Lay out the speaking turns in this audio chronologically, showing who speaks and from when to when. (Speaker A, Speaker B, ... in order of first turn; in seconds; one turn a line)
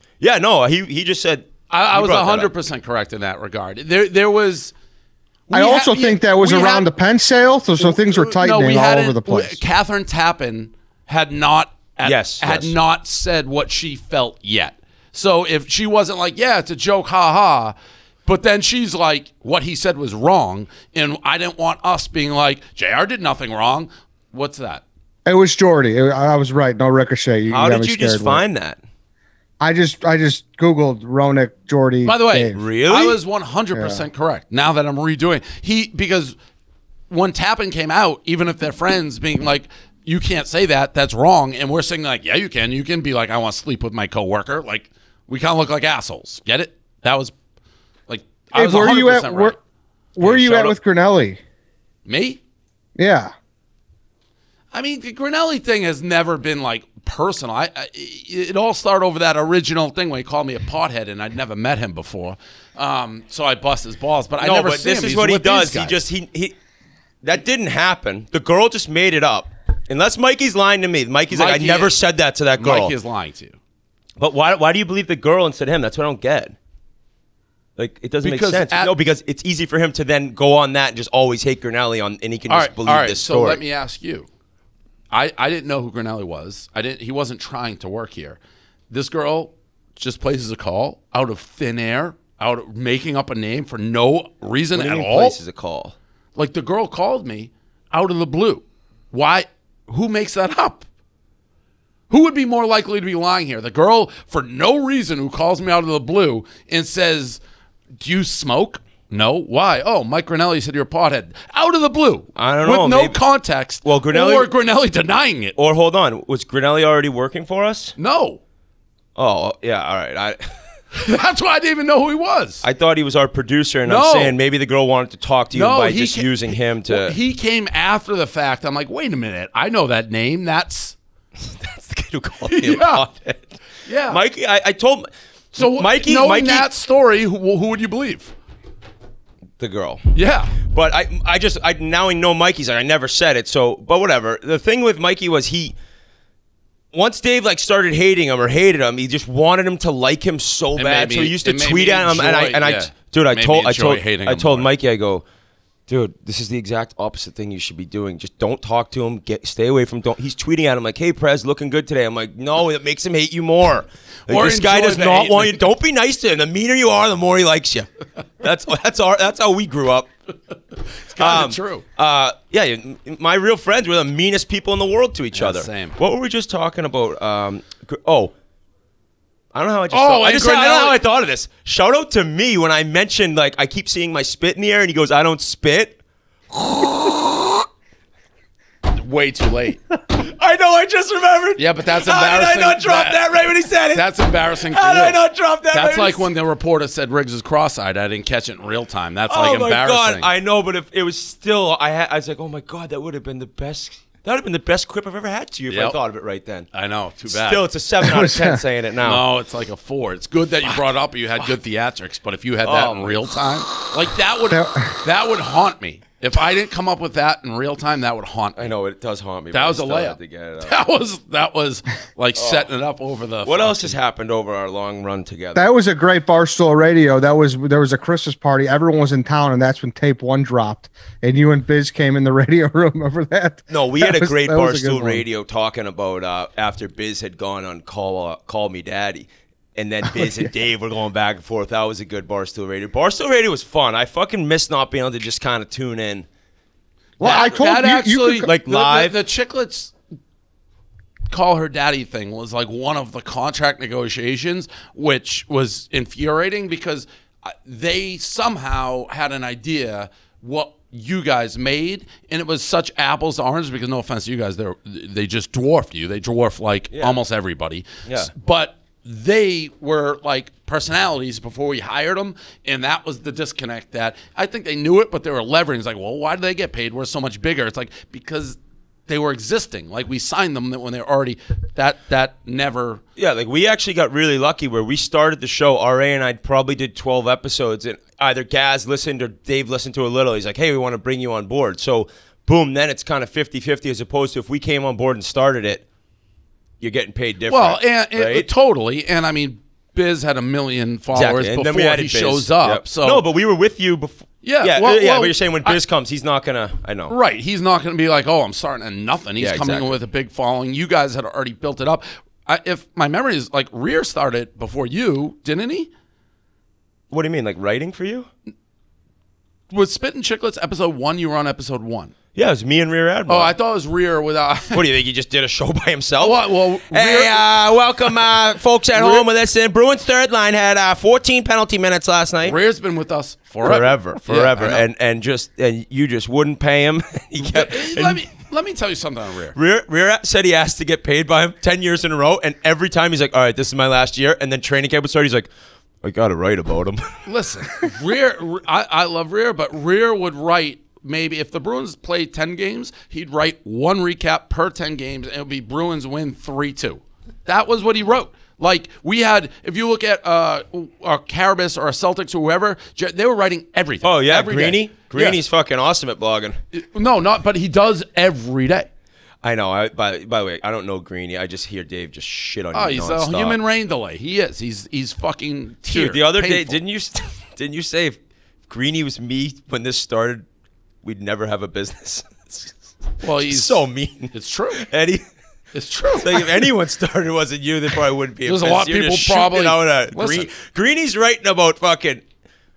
Speaker A: 0.2-2.5
Speaker B: 1.7-4.7
Speaker B: 5.5-6.9
Speaker C: 5.5-9.6
Speaker B: 7.8-17.8
Speaker A: 12.0-12.7
Speaker B: 18.3-24.8
Speaker C: 25.3-28.4
Speaker A: 27.5-28.8
Speaker C: 29.6-32.6
Speaker B: 32.0-36.4
Speaker A: 32.5-33.2
Speaker C: 33.7-34.0
Speaker B: 37.1-47.3
Speaker B: 48.1-49.6
Speaker C: 48.5-49.6
Speaker C: 50.2-51.4
Speaker B: 50.2-50.8
Speaker B: 52.1-52.4
Speaker C: 53.0-53.3
Speaker B: 54.7-66.0
Speaker A: 64.4-66.5
Speaker A: 67.2-72.9
Speaker B: 71.3-72.0
Speaker B: 72.6-73.6
Speaker A: 74.2-76.5
Speaker A: 77.8-83.6
Speaker B: 78.2-78.9
Speaker B: 82.5-84.3
Speaker B: 85.1-88.4
Speaker B: 88.9-95.4
Speaker A: 94.8-96.0
Speaker B: 96.4-100.9
Speaker B: 102.1-107.4
Speaker B: 108.0-115.6
Speaker A: 112.4-113.2
Speaker A: 113.8-114.5
Speaker A: 115.6-118.0
Speaker B: 118.0-118.4
Speaker A: 119.2-120.6
Speaker B: 120.9-122.6
Speaker A: 122.6-127.2
Speaker B: 123.9-124.4
Speaker B: 125.5-131.0
Speaker A: 131.4-136.7
Speaker B: 132.5-133.1
Speaker B: 133.9-134.2
Speaker B: 135.6-138.3
Speaker A: 139.6-140.1
Speaker B: 140.1-140.6
Speaker A: 140.7-145.8
Speaker A: 146.9-155.2
Speaker B: 150.8-154.7
Speaker A: 155.9-167.9
Speaker B: 164.3-165.6
Speaker A: 168.4-170.1
Speaker B: 171.1-171.8
Speaker A: 171.2-178.3
Speaker B: 175.3-176.0
Speaker A: 179.6-186.0
Speaker B: 179.9-181.0
Speaker B: 188.9-189.8
Speaker A: 190.1-196.3
Speaker B: 191.6-193.2
Speaker B: 193.9-195.2
Speaker B: 195.7-200.3
Speaker A: 199.3-206.7
Speaker B: 205.7-206.0
Speaker B: 206.7-207.7
Speaker A: 207.3-209.2
Speaker C: 208.0-208.6
Speaker B: 209.0-218.7
Speaker A: 212.6-213.2
Speaker C: 214.5-215.0
Speaker A: 218.6-220.9
Speaker B: 219.5-224.0
Speaker A: 222.3-222.7
Speaker A: 223.4-225.7
Speaker C: 225.6-235.2
Speaker A: 233.7-246.3
Speaker C: 247.2-248.5
Speaker B: 247.2-249.9
Speaker A: 248.5-249.2
Speaker B: 251.3-283.0
Speaker A: 266.9-267.2
Speaker A: 268.1-268.3
Speaker A: 283.2-295.8
Speaker A: 296.8-298.5
Speaker B: 297.5-303.2
Speaker A: 301.1-307.1
Speaker B: 304.4-305.8
Speaker B: 307.1-315.9
Speaker A: 309.4-309.9
Speaker A: 317.1-318.3
Speaker B: 319.7-322.1
Speaker A: 322.4-323.5
Speaker B: 323.3-324.8
Speaker A: 324.7-332.6
Speaker B: 326.2-327.4
Speaker B: 328.9-329.3
Speaker B: 332.4-334.9
Speaker A: 333.6-338.2
Speaker B: 337.4-339.6
Speaker A: 339.6-345.5
Speaker A: 346.0-347.2
Speaker B: 347.3-365.4
Speaker A: 364.0-366.6
Speaker B: 366.7-368.9
Speaker A: 369.4-373.6
Speaker B: 372.7-376.8
Speaker A: 375.9-380.4
Speaker A: 381.0-382.8
Speaker B: 383.2-384.9
Speaker A: 383.4-385.2
Speaker B: 385.7-386.7
Speaker A: 386.1-392.2
Speaker B: 388.4-390.5